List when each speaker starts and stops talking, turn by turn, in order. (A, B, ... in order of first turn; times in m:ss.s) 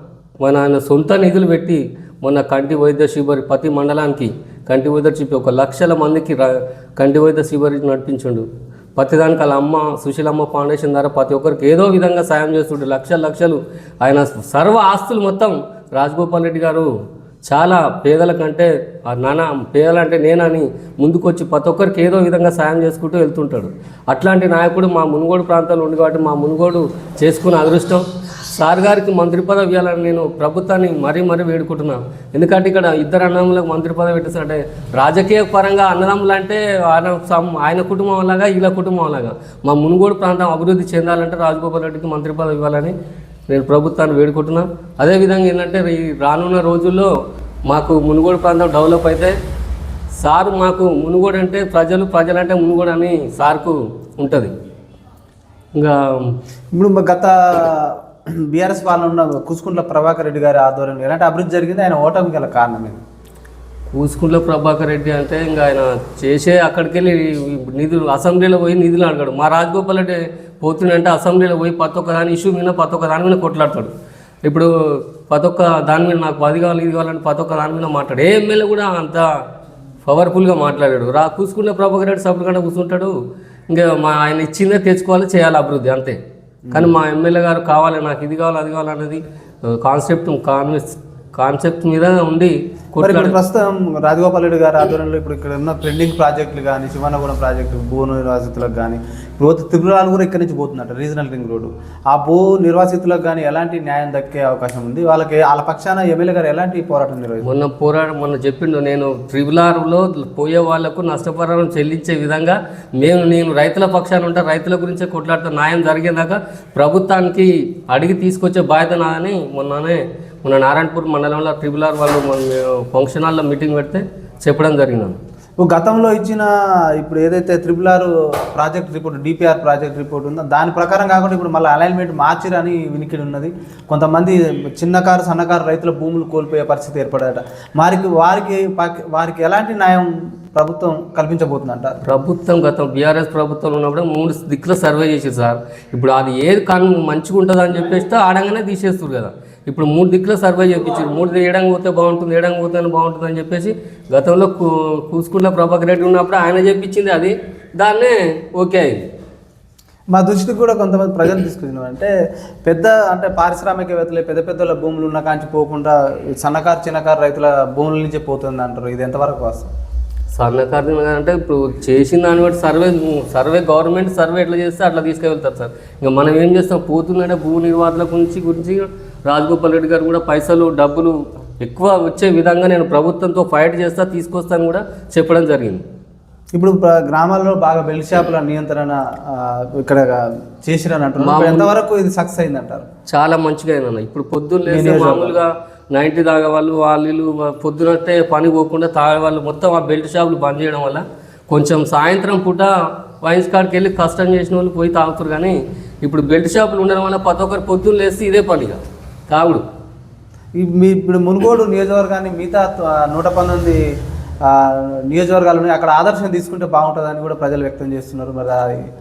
0:00.4-0:16.9 A
0:17.5-0:43.0 A
0:43.5-0:47.1 A
0:47.7-0:49.4 A
0:50.2-0:54.5 A
0:55.8-0:56.4 A
0:56.8-0:57.9 B
0:58.5-1:03.0 B
1:03.9-1:13.9 A
1:14.4-1:19.3 A
1:20.0-1:23.2 A
1:23.7-1:26.2 A
1:26.7-1:26.9 B
1:26.7-1:33.4 A
1:33.0-1:47.5 B
1:47.4-2:05.2 A
2:05.6-2:22.0 B
2:22.0-2:39.0 A
2:40.1-2:42.1 B
2:42.7-2:49.7 B
2:50.3-3:05.8 A
3:06.6-3:12.8 B
3:11.2-3:11.7 A
3:13.1-3:28.8 A
3:14.7-3:15.4 B
3:29.3-3:29.6 A
3:30.6-3:33.8 B
3:34.5-3:38.9 B